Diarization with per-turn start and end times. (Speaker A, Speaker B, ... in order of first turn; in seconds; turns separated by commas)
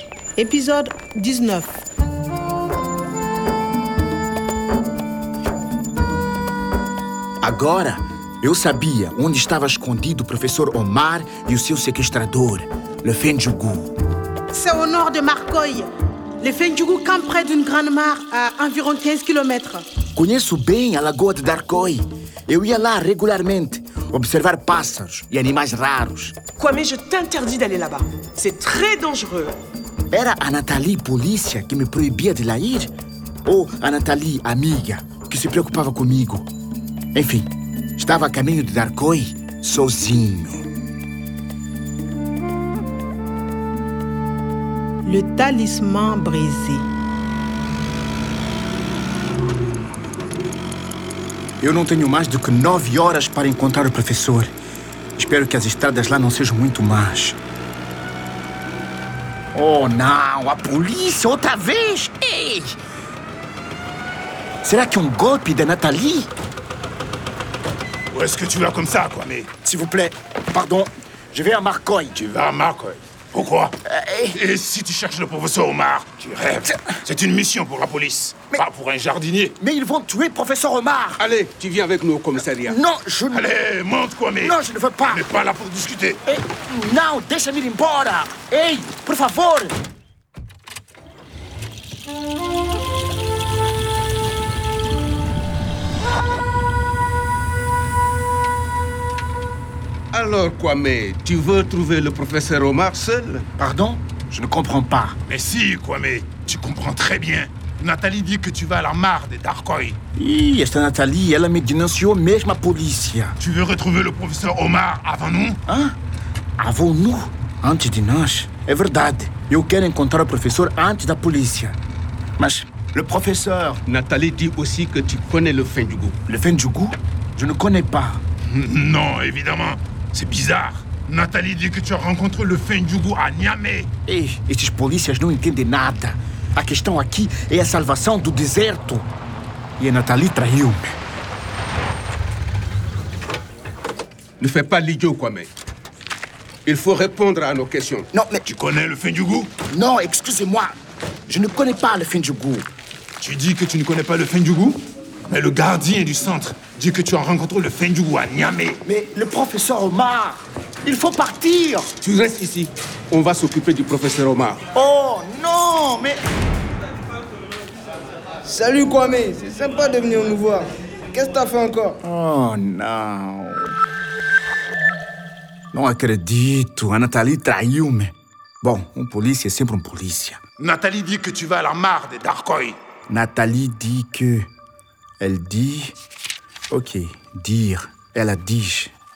Speaker A: 0.3-1.8, Speaker B: 7.4-14.0, Speaker A: 14.5-19.9, Speaker B: 20.1-26.4, Speaker C: 26.6-29.6, Speaker B: 30.1-32.9, Speaker B: 33.4-36.5, Speaker B: 37.1-40.6, Speaker A: 45.0-46.9, Speaker B: 51.6-54.5, Speaker B: 55.1-57.4, Speaker B: 59.5-62.8, Speaker B: 64.6-66.3, Speaker D: 68.1-69.5, Speaker B: 69.6-72.2, Speaker D: 72.1-73.8, Speaker B: 73.8-74.4, Speaker D: 74.3-79.5, Speaker B: 79.6-81.2, Speaker E: 81.2-82.8, Speaker B: 82.6-83.5, Speaker D: 83.3-84.5, Speaker B: 84.4-85.3, Speaker D: 85.1-86.2, Speaker B: 86.3-89.8, Speaker E: 100.1-103.5, Speaker B: 103.6-105.2, Speaker D: 105.3-110.0, Speaker B: 110.1-113.4, Speaker D: 113.4-115.6, Speaker B: 115.7-116.0, Speaker B: 116.6-121.8, Speaker B: 122.4-123.8, Speaker E: 123.9-126.2, Speaker B: 126.3-128.2, Speaker D: 128.5-133.9, Speaker B: 134.1-139.1, Speaker B: 139.8-140.9, Speaker E: 144.4-145.5, Speaker E: 146.7-148.1, Speaker B: 148.1-148.5, Speaker D: 148.5-149.6, Speaker B: 149.7-150.7, Speaker B: 151.3-152.7, Speaker D: 153.2-158.8, Speaker B: 158.8-161.9, Speaker E: 162.0-164.6, Speaker B: 164.7-166.2, Speaker F: 168.4-172.0, Speaker B: 172.0-173.7, Speaker B: 175.7-180.4, Speaker D: 180.6-182.8, Speaker B: 183.1-184.5, Speaker B: 185.2-185.9, Speaker B: 186.7-188.9